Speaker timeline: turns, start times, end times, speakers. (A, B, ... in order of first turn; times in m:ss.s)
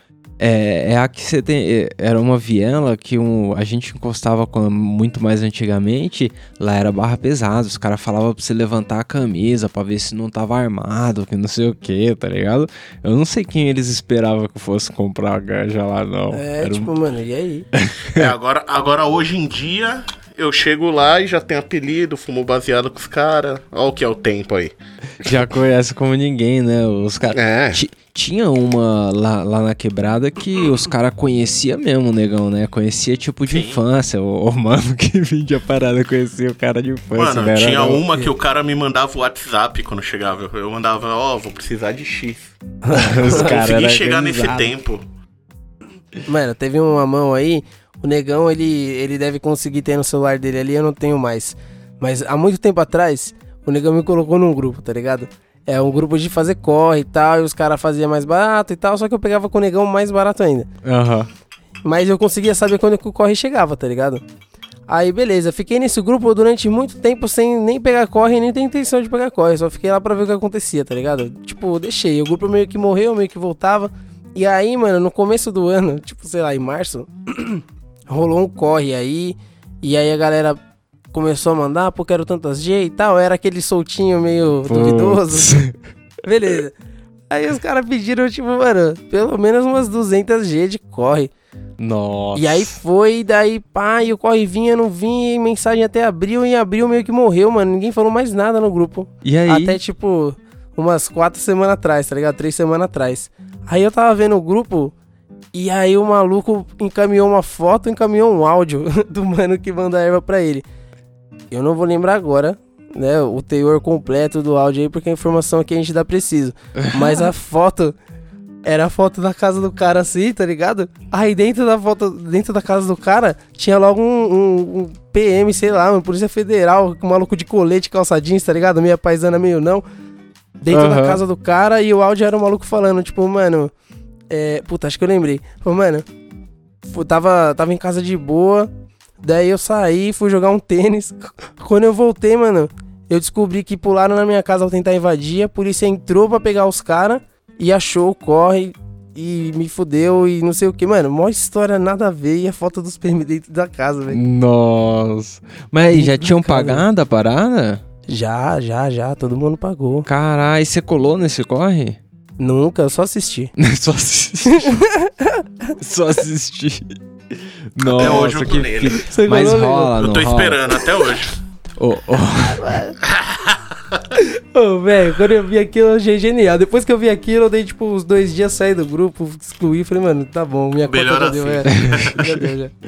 0:00.4-0:16.9 A
0:16.3-0:17.7 B
0:17.7-0:18.3 A
0:18.1-0:24.8 C
0:25.2-0:38.0 A
0:27.3-0:27.8 C
0:33.5-0:33.8 C
0:37.1-0:42.6 C
0:42.8-0:43.6 B
0:42.9-0:44.7 A
0:43.1-0:45.0 C
0:46.3-1:00.7 B
1:00.8-1:01.3 A
1:01.8-1:04.2 B
1:04.9-1:20.6 B
1:21.1-1:25.6 B
1:24.7-1:25.8 A
1:26.2-1:26.8 B
1:27.3-1:31.3 B
1:31.8-1:32.7 A
1:32.4-1:44.9 B
1:39.2-1:39.8 A
1:45.5-1:50.6 B
1:51.5-1:58.0 B
1:56.9-1:57.2 A
1:58.6-2:09.8 B
2:10.6-2:13.7 B
2:10.7-2:11.2 A
2:14.3-2:16.0 B
2:16.9-2:18.7 B
2:19.2-2:34.2 B
2:34.1-2:37.8 A
2:35.9-2:36.8 B
2:38.1-2:40.1 B
2:40.1-2:42.0 A
2:42.4-2:43.5 B
2:43.6-2:44.8 A
2:44.5-2:45.7 B
2:45.8-2:50.8 A
2:47.8-2:49.0 C
2:49.0-2:50.0 B
2:50.0-2:51.4 C
2:51.8-2:52.6 A
2:52.5-2:53.0 B
2:53.0-2:54.0 C
2:54.2-3:02.7 B
3:00.8-3:02.2 C
3:01.7-3:02.4 A